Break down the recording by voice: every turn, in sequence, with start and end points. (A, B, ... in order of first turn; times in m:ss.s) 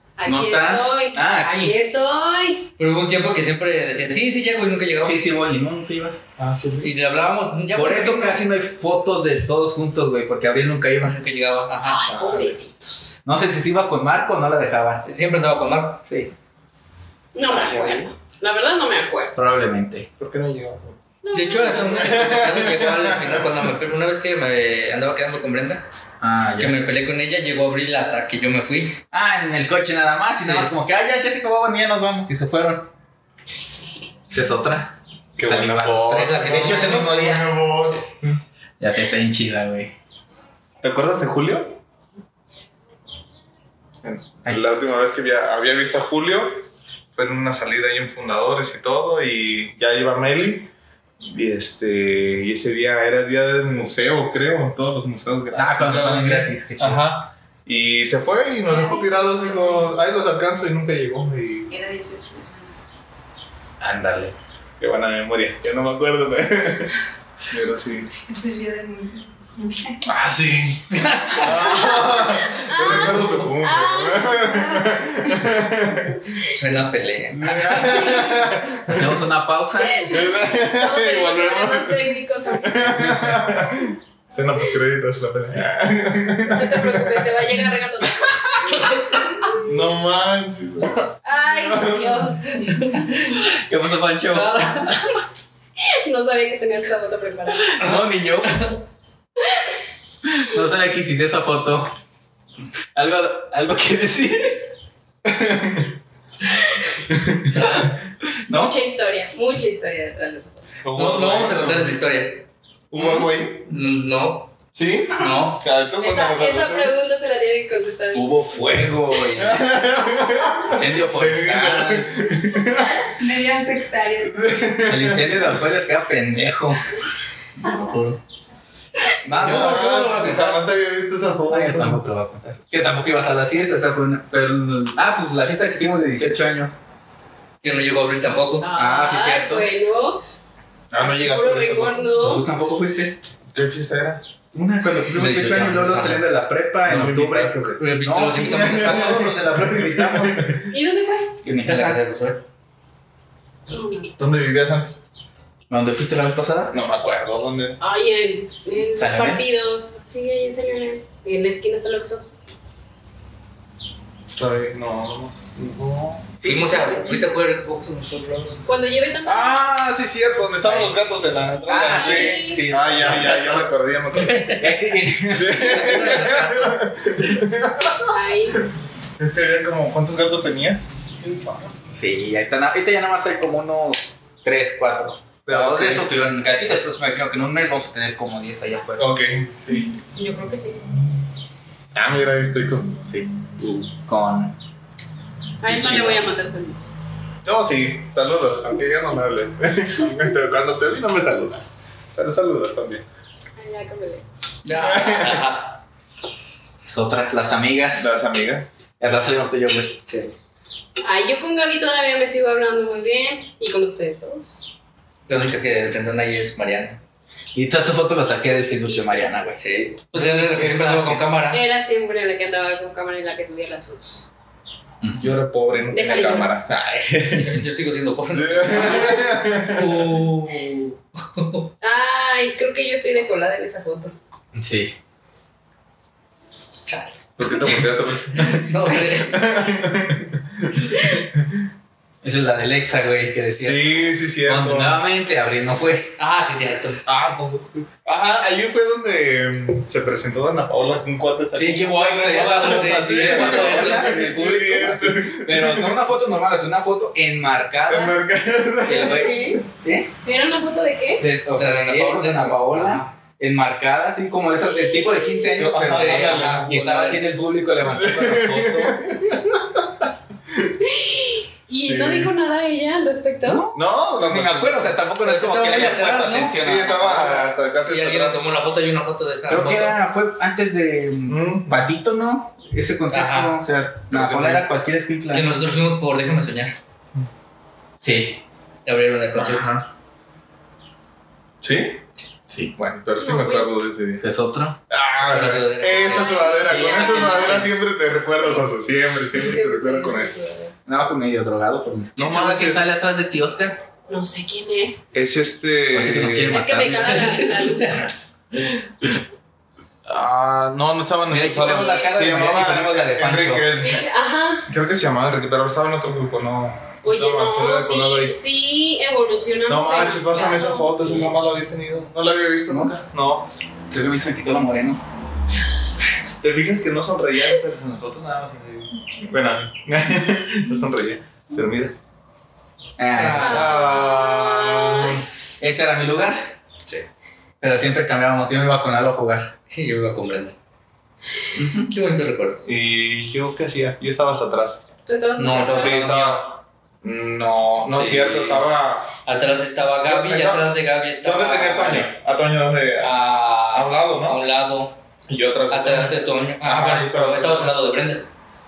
0:00.2-0:02.7 A
0:00.2-0:01.7 B
0:02.8-0:05.2 C
0:05.0-0:06.2 B
0:06.4-0:06.9 D
0:06.8-0:08.4 C
0:07.7-0:11.2 B
0:11.0-0:12.1 C
0:11.8-0:13.1 A
0:12.0-0:12.6 D
0:13.2-0:15.0 B
0:15.0-0:16.0 C
0:16.1-0:16.3 B
0:17.3-0:19.3 A
0:17.5-0:18.1 D
0:19.3-0:20.1 B
0:20.2-0:21.0 D
0:21.2-0:22.1 A
0:21.3-0:25.8 C
0:21.8-0:23.6 D
0:26.2-0:26.8 B
0:26.6-0:29.0 C
0:29.1-0:32.9 B
0:30.4-0:30.7 C
0:34.3-0:37.5 B
0:35.4-0:38.4 D
0:36.0-0:38.0 C
0:38.8-0:39.9 B
0:40.8-0:41.8 D
0:44.0-0:50.7 D
0:51.2-1:01.7 D
0:55.5-0:57.0 B
0:58.7-0:59.9 E
1:01.7-1:02.8 E
1:03.8-1:04.3 B
1:03.8-1:08.1 D
1:08.3-1:10.0 E
1:10.0-1:16.3 D
1:10.9-1:11.6 C
1:11.5-1:14.8 A
1:16.5-1:18.3 C
1:17.3-1:19.2 D
1:18.9-1:20.0 B
1:19.9-1:23.2 A
1:20.0-1:27.3 D
1:26.5-1:29.6 A
1:28.6-1:29.0 C
1:29.6-1:32.4 D
1:31.2-1:32.8 A
1:32.6-1:33.4 C
1:33.4-1:35.1 B
1:34.3-1:35.1 C
1:35.8-1:37.8 A
1:37.6-1:38.6 B
1:37.8-1:38.8 C
1:40.2-1:41.9 B
1:42.9-1:44.6 B
1:45.2-1:45.9 D
1:47.1-1:47.6 D
1:48.5-1:48.7 B
1:48.5-1:50.7 A
1:50.8-1:52.0 D
1:50.9-1:52.4 C
1:52.9-1:53.7 D
1:53.7-1:54.5 C
1:54.7-1:56.9 D
1:55.1-1:55.6 C
1:55.2-1:58.4 A
1:58.1-1:59.7 B
1:59.3-2:03.0 D
2:00.7-2:02.1 B
2:02.7-2:04.7 E
2:04.2-2:05.6 D
2:04.8-2:06.9 B
2:07.6-2:08.2 B
2:09.2-2:09.9 B
2:09.3-2:10.7 C
2:09.4-2:12.0 D
2:11.5-2:16.7 B
2:17.6-2:18.7 C
2:18.6-2:20.2 A
2:18.7-2:19.7 B
2:20.9-2:22.1 D
2:21.0-2:22.4 A
2:22.2-2:23.2 B
2:23.5-2:24.2 D
2:24.5-2:30.6 B
2:25.1-2:26.2 C
2:26.9-2:27.8 D
2:27.8-2:29.4 C
2:28.4-2:30.7 D
2:30.7-2:31.4 A
2:31.4-2:32.0 B
2:31.6-2:32.4 C
2:33.7-2:34.1 A
2:34.2-2:35.0 D
2:35.7-2:36.7 B
2:36.7-2:37.8 D
2:37.8-2:42.2 A
2:39.0-2:39.4 B
2:44.4-2:46.3 D
2:46.4-2:47.2 B
2:46.4-2:48.6 C
2:48.6-2:49.6 A
2:49.2-2:54.6 D
2:51.7-2:53.7 B
2:51.8-2:52.6 A
2:54.1-2:54.6 C
2:54.5-2:55.7 B
2:55.2-2:58.6 D
2:55.4-2:56.9 C
2:58.1-2:58.6 A
2:59.2-3:00.8 D
3:01.2-3:01.7 A
3:01.9-3:09.1 B
3:05.5-3:06.1 D
3:09.0-3:09.9 D
3:10.1-3:10.8 A
3:11.9-3:13.0 D
3:13.0-3:14.6 B
3:15.6-3:16.9 A
3:15.7-3:16.2 B
3:17.4-3:23.0 D
3:23.6-3:24.2 A
3:24.6-3:25.8 C
3:24.7-3:25.5 D
3:26.8-3:28.1 B
3:28.0-3:28.7 D
3:29.0-3:30.0 B
3:30.1-3:30.3 C
3:31.0-3:34.6 A
3:35.3-3:37.0 C
3:37.5-3:39.6 B
3:39.6-3:41.6 C
3:40.1-3:41.2 B
3:41.5-3:44.3 A
3:45.0-3:45.3 B
3:45.2-3:47.6 D
3:45.9-3:46.5 A
3:47.3-3:51.7 C
3:48.3-3:50.2 D
3:51.8-3:54.1 A
3:54.5-3:54.9 B
3:56.8-3:57.7 C
3:57.4-4:01.6 D
3:58.3-3:59.5 C
4:02.2-4:06.1 B
4:03.6-4:05.0 D
4:06.2-4:07.0 C
4:07.0-4:16.0 D
4:11.5-4:18.2 B
4:12.3-4:14.1 C
4:17.9-4:19.5 D
4:18.8-4:20.1 B
4:18.8-4:19.6 A
4:20.2-4:21.2 A
4:21.2-4:29.0 B
4:21.6-4:23.1 C
4:24.6-4:25.5 A
4:25.6-4:26.8 D
4:25.8-4:27.3 C
4:27.9-4:30.7 D
4:30.8-4:33.6 A
4:31.8-4:32.3 D
4:33.4-4:37.1 B
4:33.7-4:35.0 D
4:35.2-4:40.0 C
4:36.6-4:38.5 D
4:39.5-4:45.5 B
4:41.3-4:41.8 D
4:43.1-4:43.6 C
4:44.1-4:44.6 D
4:45.3-4:46.8 C
4:48.0-4:48.4 B
4:48.8-4:49.7 C
4:49.3-4:49.9 D
4:51.6-4:52.0 D
4:52.5-4:52.7 B
4:52.8-4:54.2 D
4:53.2-4:53.7 A
4:54.2-4:54.8 B
4:54.9-5:00.4 D
4:55.2-4:57.7 C
4:55.9-4:57.6 A
4:56.7-4:57.1 B
4:58.4-4:58.6 A
4:59.3-5:00.7 A
5:00.9-5:03.8 B
5:02.2-5:02.8 D
5:04.1-5:05.0 A
5:05.1-5:06.7 D
5:05.9-5:07.3 B
5:06.4-5:08.1 A
5:06.8-5:08.8 C
5:10.0-5:14.0 D
5:11.3-5:13.7 B
5:11.6-5:12.2 A
5:13.8-5:14.7 A
5:14.7-5:18.4 D
5:17.0-5:21.2 A
5:19.7-5:23.5 D
5:23.9-5:25.0 B
5:26.4-5:31.9 D
5:33.0-5:33.8 B
5:33.1-5:33.9 C
5:33.3-5:35.2 A
5:33.4-5:35.2 D
5:35.6-5:36.5 B
5:37.6-5:39.5 B
5:39.7-5:40.5 C
5:41.5-5:41.9 B
5:41.9-5:42.6 C
5:42.6-5:44.8 D
5:45.1-5:46.0 A
5:45.4-5:46.5 C
5:45.5-5:49.1 D
5:47.9-5:48.6 C
5:49.2-5:52.1 C
5:50.1-5:50.6 D
5:51.2-5:53.2 D
5:53.0-5:55.0 C
5:53.7-5:54.4 D
5:55.3-5:57.7 D
5:55.7-5:58.3 C